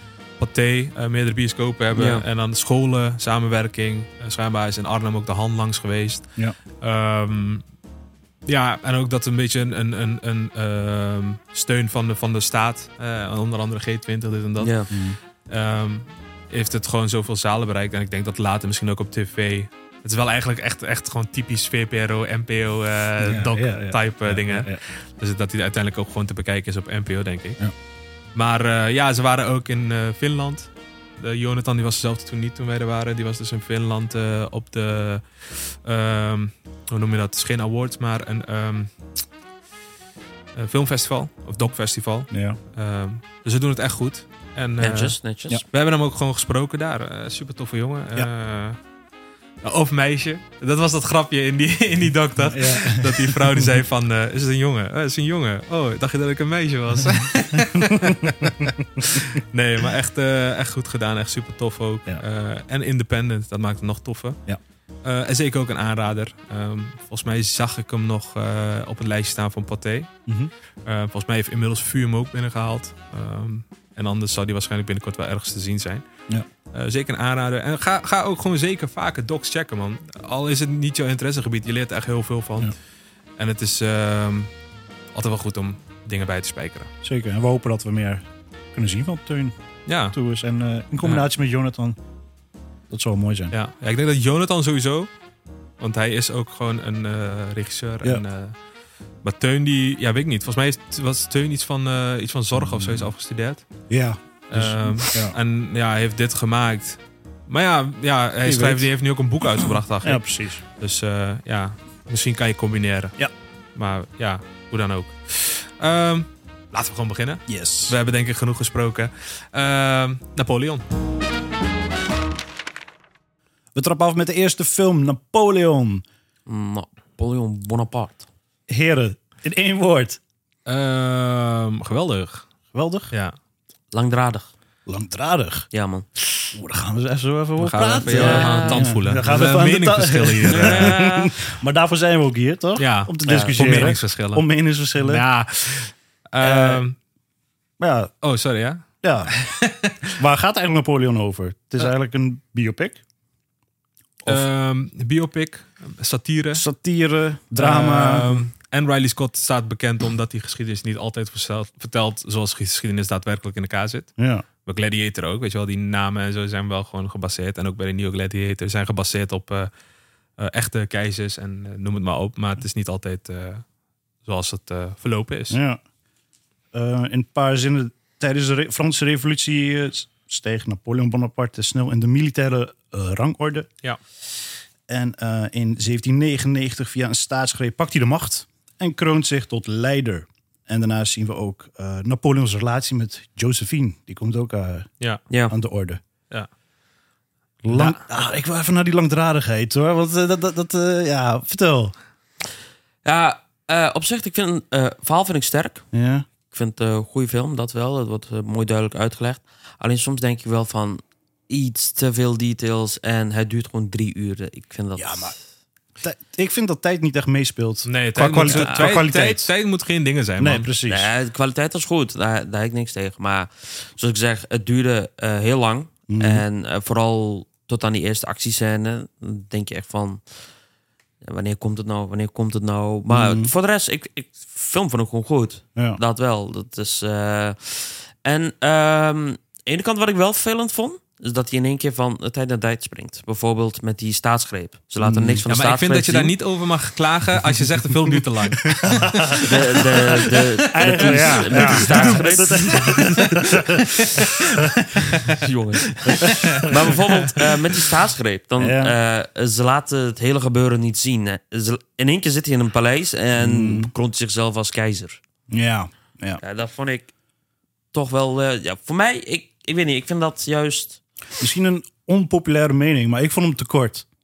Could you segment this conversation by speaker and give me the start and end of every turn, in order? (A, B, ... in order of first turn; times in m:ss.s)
0:00.4-0:07.6 A
0:01.9-0:02.2 B
0:08.4-0:14.8 A
0:14.6-0:14.9 B
0:14.9-0:15.2 C
0:15.4-0:27.6 A
0:23.2-0:24.8 C
0:28.4-0:38.9 A
0:40.6-0:48.8 A
0:42.3-0:42.6 C
0:44.8-0:45.6 B
0:49.6-1:04.4 A
0:52.4-0:53.8 C
0:57.6-0:59.2 C
1:05.0-1:10.1 A
1:10.8-1:16.1 A
1:16.7-1:22.7 A
1:23.4-1:24.5 A
1:25.1-1:26.9 A
1:27.0-1:29.6 C
1:29.9-1:30.2 A
1:30.1-1:32.0 C
1:32.9-1:33.5 C
1:33.5-1:35.1 A
1:35.8-1:38.6 A
1:39.2-1:43.7 A
1:42.5-1:43.1 C
1:43.9-1:45.4 C
1:44.5-1:50.2 A
1:48.4-1:48.9 C
1:49.6-1:50.6 C
1:50.8-1:53.2 A
1:53.8-2:00.8 A
1:57.5-1:58.0 C
2:03.8-2:06.0 C
2:06.5-2:08.3 B
2:08.7-2:10.2 C
2:10.7-2:12.5 A
2:12.7-2:13.1 C
2:13.9-2:14.5 B
2:14.9-2:15.7 C
2:15.7-2:16.1 B
2:16.5-2:25.2 C
2:17.6-2:21.0 A
2:18.1-2:19.0 B
2:20.5-2:21.3 B
2:22.8-2:27.0 A
2:23.2-2:24.0 B
2:26.4-2:26.8 C
2:27.8-2:28.1 C
2:28.2-2:30.2 A
2:29.0-2:29.3 C
2:30.1-2:33.0 C
2:34.3-2:36.7 A
2:36.5-2:38.4 C
2:37.6-2:49.7 A
2:44.2-2:44.4 C
2:50.4-2:53.6 A
2:54.2-2:55.6 A
2:55.5-2:55.8 C
2:56.7-3:03.7 C
3:04.9-3:14.9 C
3:15.3-3:15.6 B
3:15.5-3:16.0 C
3:17.6-3:21.9 C
3:17.7-3:18.0 A
3:23.0-3:25.9 B
3:25.9-3:26.3 C
3:26.5-3:35.4 B
3:35.0-3:35.3 C
3:36.0-3:39.5 C
3:37.8-3:40.7 A
3:38.4-3:39.0 B
3:40.4-3:41.1 C
3:40.9-3:50.2 B
3:46.1-3:46.4 C
3:51.2-4:06.4 B
3:53.1-3:53.5 C
4:05.0-4:05.4 C
4:05.5-4:09.8 A
4:08.6-4:09.5 C
4:09.4-4:13.2 B
4:10.7-4:13.9 C
4:10.8-4:14.4 A
4:15.3-4:25.2 B
4:16.1-4:17.0 A
4:16.1-4:16.9 C
4:18.6-4:19.0 C
4:23.4-4:23.9 C
4:25.5-4:26.4 C
4:26.4-4:27.1 B
4:27.9-4:31.0 B
4:31.4-4:34.1 C